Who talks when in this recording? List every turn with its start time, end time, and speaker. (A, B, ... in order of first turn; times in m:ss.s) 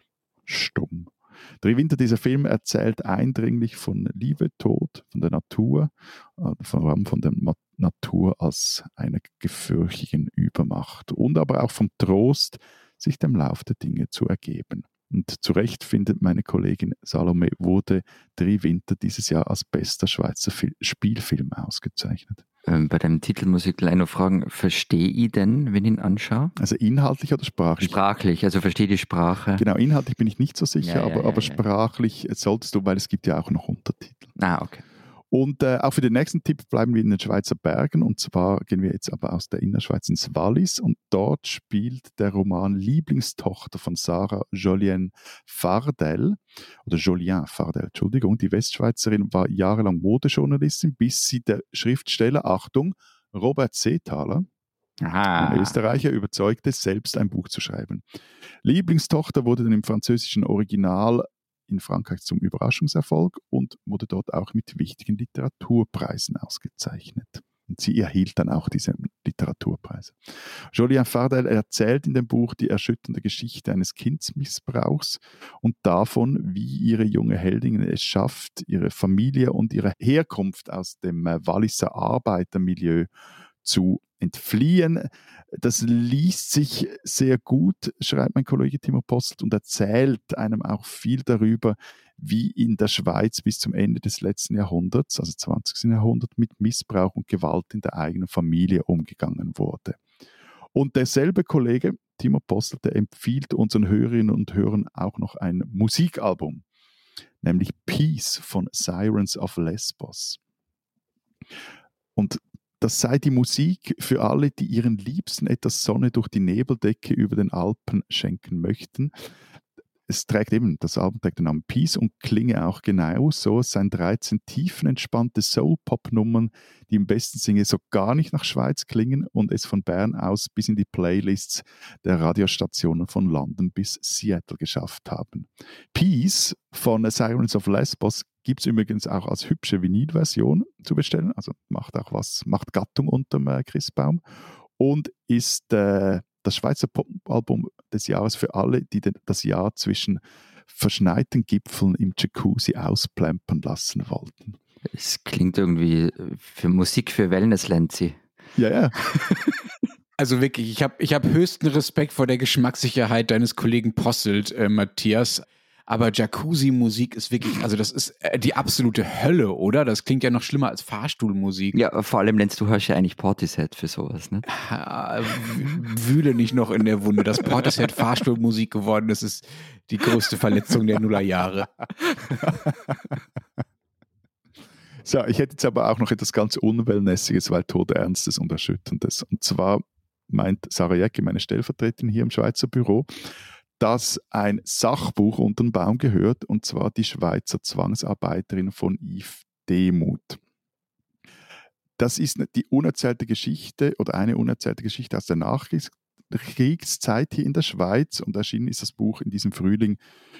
0:00.4-0:22.4 A
0:22.6-0:26.5 B
0:26.6-0:28.0 A
0:27.8-0:29.6 B
0:29.6-0:34.3 A
0:30.8-0:31.6 B
0:34.4-0:34.8 B
0:35.3-0:54.5 A
0:55.0-0:55.8 C
0:55.4-0:58.0 A
0:58.6-1:10.2 A
1:10.7-1:23.1 A
1:23.6-1:40.0 A
1:40.7-1:46.6 A
1:47.4-1:50.4 A
1:52.2-1:59.1 A
2:00.1-2:24.2 A
2:24.8-2:34.6 A
2:34.9-2:38.2 B
2:38.6-2:38.9 A
2:39.0-2:39.5 B
2:40.2-2:51.8 C
2:51.7-2:54.5 B
2:54.5-3:01.7 C
3:02.4-3:03.2 A
3:05.0-3:13.1 A
3:13.8-3:20.4 A
3:22.0-3:30.0 A